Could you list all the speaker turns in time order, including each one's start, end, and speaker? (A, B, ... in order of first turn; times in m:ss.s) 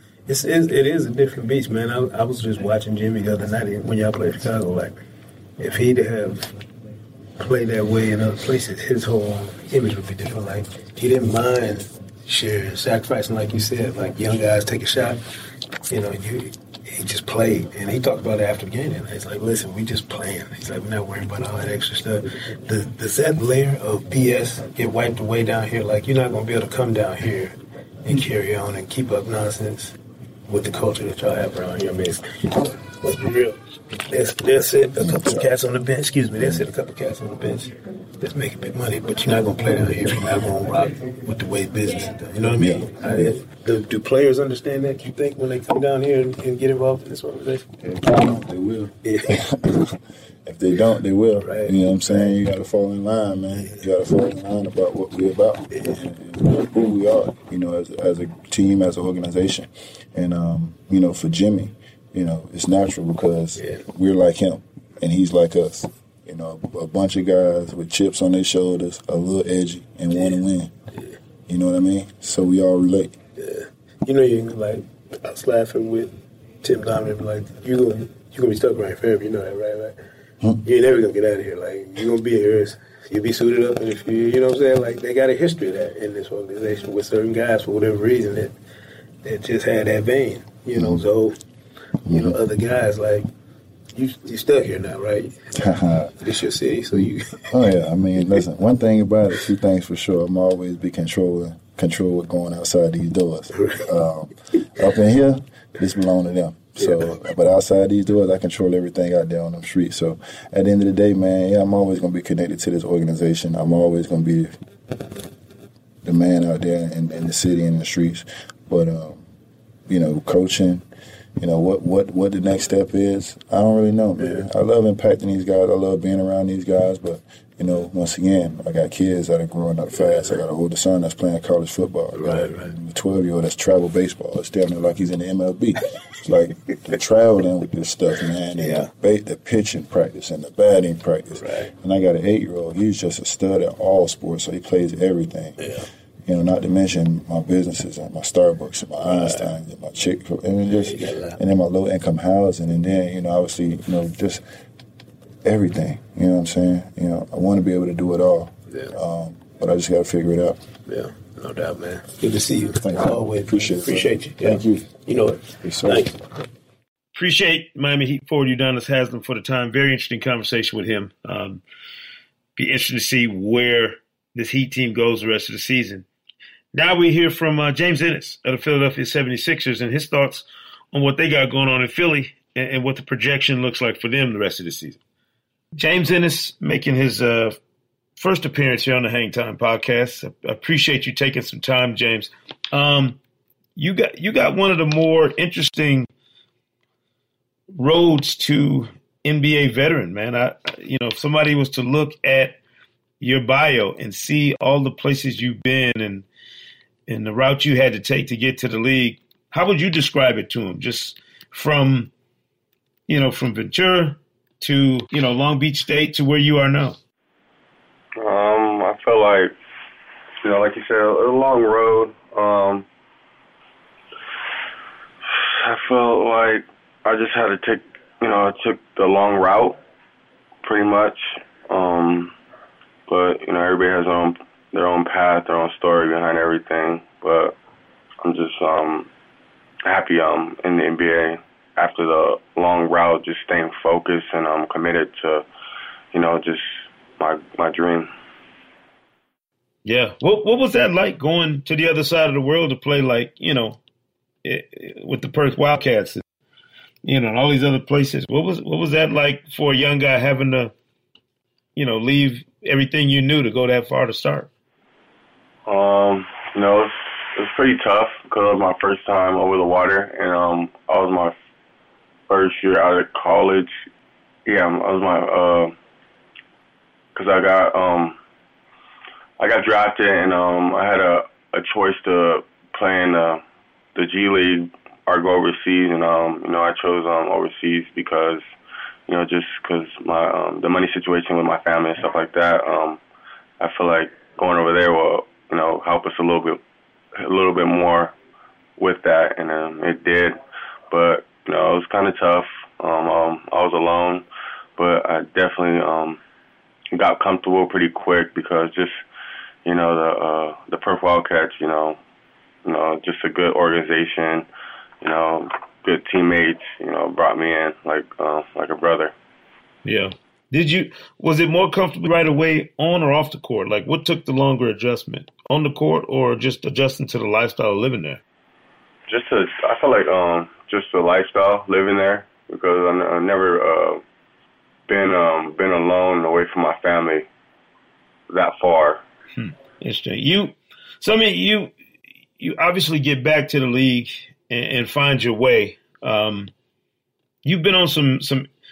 0:00.3-0:05.0 A
0:05.6-0:06.5 A
0:07.4-0:15.2 A
0:15.9-0:29.9 A
0:30.5-0:47.8 A
0:35.0-0:35.5 B
0:42.6-0:43.4 B
0:47.8-1:10.7 B
0:49.0-0:49.5 A
0:51.4-0:52.3 A
1:03.6-1:03.8 A
1:10.1-1:10.4 A
1:11.5-1:13.2 B
1:13.4-1:20.0 A
1:20.6-1:28.5 A
1:29.2-1:31.4 A
1:30.7-1:31.1 B
1:32.1-1:32.4 B
1:32.1-1:33.3 A
1:33.9-1:35.6 A
1:35.6-1:36.3 B
1:36.2-1:37.6 A
1:36.9-1:54.5 B
1:43.5-1:43.8 A
1:46.8-1:47.2 A
1:56.0-1:59.2 B
1:59.9-2:00.8 B
2:01.4-2:25.7 B
2:04.2-2:04.4 A
2:10.0-2:10.3 A
2:12.1-2:12.7 A
2:18.6-2:18.9 A
2:21.4-2:21.7 A
2:25.6-2:25.9 A
2:26.2-2:34.4 B
2:29.0-2:29.5 A
2:30.7-2:31.4 A
2:35.4-2:40.7 B
2:40.9-2:46.2 A
2:42.8-2:45.0 B
2:45.6-2:46.1 B
2:47.1-2:51.6 C
2:52.6-2:56.0 C
2:56.7-3:05.0 C
3:05.7-3:07.6 C
3:08.2-3:13.2 C
3:13.8-3:16.1 C
3:17.7-3:22.6 C
3:23.2-3:26.2 C
3:27.1-3:32.1 C
3:33.1-3:37.0 C
3:38.2-3:39.5 D
3:40.4-3:42.9 D
3:45.3-3:49.8 D
3:50.6-3:52.3 D
3:53.1-3:57.5 D
3:58.2-3:59.1 D
3:59.8-4:05.4 D
4:06.1-4:08.1 D
4:09.8-4:13.8 C
4:14.4-4:16.2 C
4:17.0-4:20.7 C
4:21.8-4:24.5 C
4:25.6-4:31.3 D
4:32.3-4:33.7 D
4:34.4-4:35.7 D
4:37.1-4:38.2 D
4:39.4-4:43.4 D
4:43.9-4:48.4 D
4:49.1-4:53.0 D
4:53.6-4:56.6 D
4:57.2-4:58.1 D
4:58.8-5:00.4 D
5:00.9-5:04.2 D
5:04.8-5:06.2 D
5:06.9-5:09.0 D
5:09.6-5:12.0 D
5:12.6-5:14.5 D
5:15.0-5:19.1 D
5:19.8-5:28.2 C
5:29.1-5:34.0 D
5:34.9-5:37.2 D
5:38.3-5:39.0 D
5:39.4-5:41.7 C
5:42.4-5:46.5 C
5:47.4-5:48.5 C